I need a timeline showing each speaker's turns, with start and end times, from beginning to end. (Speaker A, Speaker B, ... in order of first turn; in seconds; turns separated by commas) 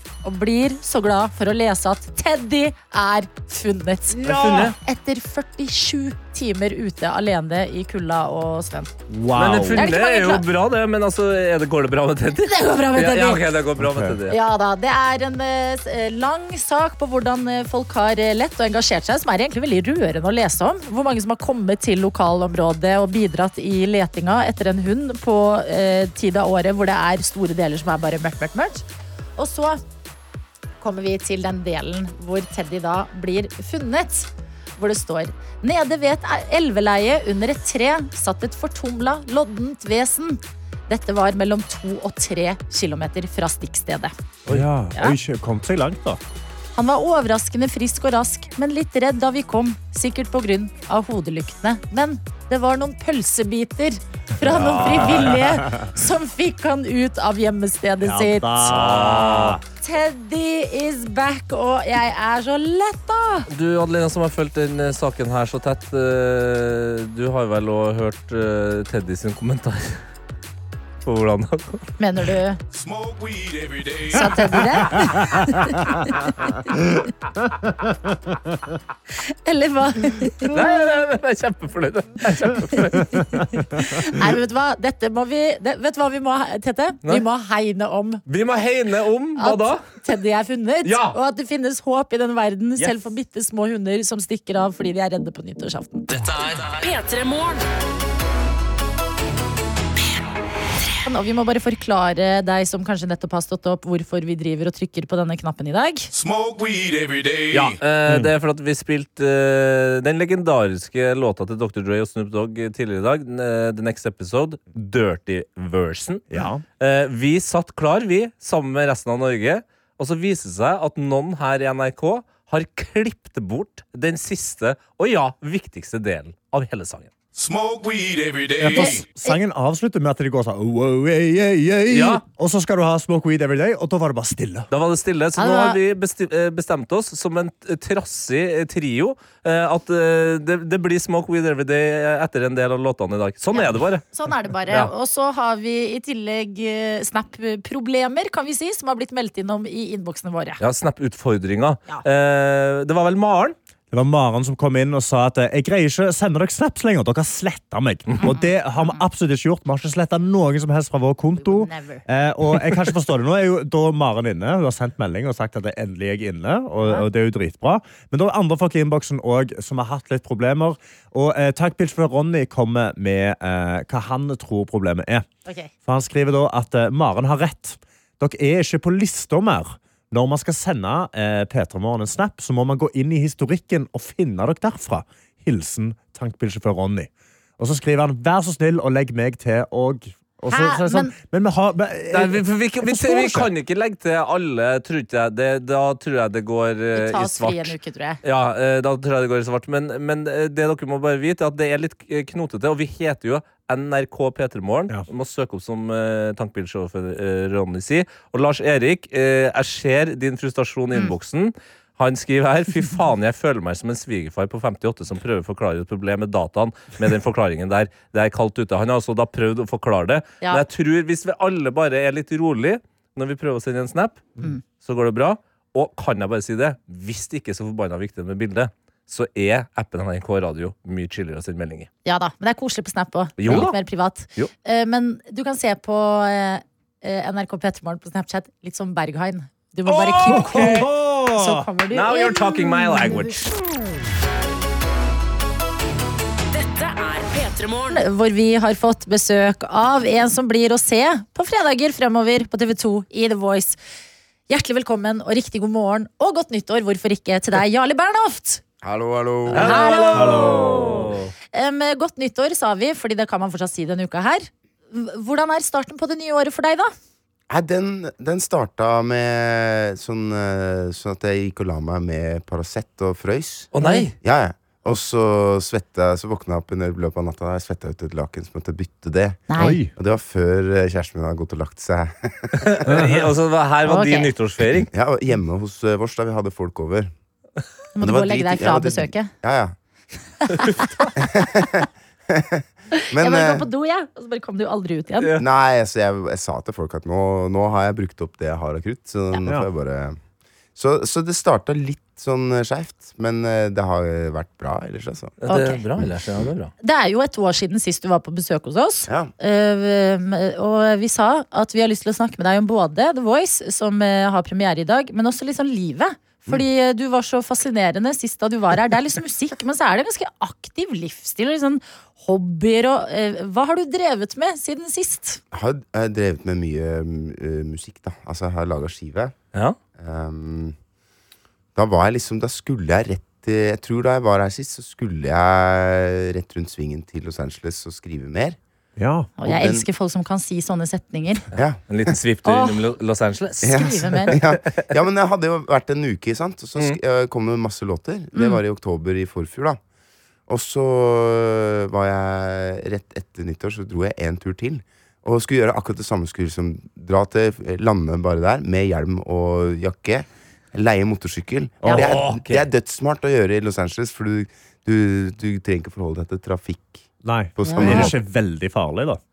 Speaker A: 0.2-8.9, Speaker B: 4.2-4.7, Speaker C: 4.2-4.7, Speaker C: 9.1-9.9, Speaker B: 9.3-14.4, Speaker A: 9.8-10.4, Speaker A: 12.4-13.4, Speaker C: 13.8-14.2, Speaker A: 14.3-28.8, Speaker A: 29.4-29.8, Speaker A: 30.8-44.1, Speaker C: 44.5-46.2, Speaker A: 46.7-58.8, Speaker C: 54.4-55.9, Speaker C: 58.0-59.6, Speaker B: 58.7-59.6, Speaker A: 59.8-63.5, Speaker B: 63.5-70.0, Speaker B: 71.0-71.9, Speaker A: 72.0-72.6, Speaker D: 72.7-74.8, Speaker A: 74.1-76.5, Speaker C: 75.0-75.9, Speaker A: 79.3-80.5, Speaker B: 80.5-83.6, Speaker A: 83.9-88.2, Speaker B: 88.3-89.8, Speaker A: 89.4-96.1, Speaker B: 90.8-91.1, Speaker E: 96.1-97.6, Speaker A: 101.0-106.1, Speaker D: 106.1-107.8, Speaker B: 107.5-116.2, Speaker C: 108.1-108.3, Speaker C: 116.3-116.6, Speaker B: 116.8-127.1, Speaker D: 127.3-129.1, Speaker C: 128.6-134.7, Speaker A: 128.7-129.4, Speaker B: 131.9-132.2, Speaker B: 134.7-144.0, Speaker A: 135.4-135.8, Speaker A: 143.5-150.6, Speaker B: 150.6-153.5, Speaker C: 153.9-175.3, Speaker A: 158.2-159.0, Speaker A: 161.4-162.0, Speaker A: 175.4-175.7, Speaker C: 175.8-193.5, Speaker A: 190.5-191.1, Speaker B: 192.1-231.9, Speaker A: 196.9-198.2, Speaker A: 232.0-243.3, Speaker B: 233.4-233.7, Speaker C: 233.5-233.7, Speaker B: 239.9-240.8, Speaker C: 240.2-241.7, Speaker B: 241.9-243.5, Speaker E: 246.5-248.0, Speaker A: 247.9-253.8, Speaker A: 254.5-258.6, Speaker F: 258.8-260.3, Speaker B: 259.5-261.3, Speaker A: 259.5-261.0, Speaker C: 260.2-260.9, Speaker A: 261.5-266.9, Speaker F: 267.5-273.7, Speaker B: 273.7-274.1, Speaker A: 273.8-274.1, Speaker F: 274.2-282.8, Speaker A: 279.5-279.8, Speaker C: 279.6-279.9, Speaker B: 282.6-284.9, Speaker C: 282.9-283.2, Speaker A: 283.9-284.3, Speaker F: 284.6-287.1, Speaker A: 287.9-289.3, Speaker F: 288.0-289.8, Speaker A: 290.6-290.9, Speaker B: 290.6-291.1, Speaker F: 291.2-293.7, Speaker A: 292.9-295.4, Speaker F: 295.4-300.2, Speaker F: 300.7-305.4, Speaker B: 305.4-306.7, Speaker A: 305.5-305.8, Speaker A: 306.8-325.4, Speaker F: 325.5-329.3, Speaker F: 330.0-330.8, Speaker F: 331.7-338.6, Speaker C: 339.0-339.3, Speaker A: 339.4-341.4, Speaker F: 339.4-339.9, Speaker F: 341.5-342.1, Speaker B: 341.9-344.6, Speaker A: 342.4-342.8, Speaker F: 343.6-349.8, Speaker A: 343.7-344.3, Speaker A: 348.3-348.6, Speaker F: 350.5-368.1, Speaker B: 361.9-362.6, Speaker C: 367.2-369.2, Speaker A: 367.6-368.1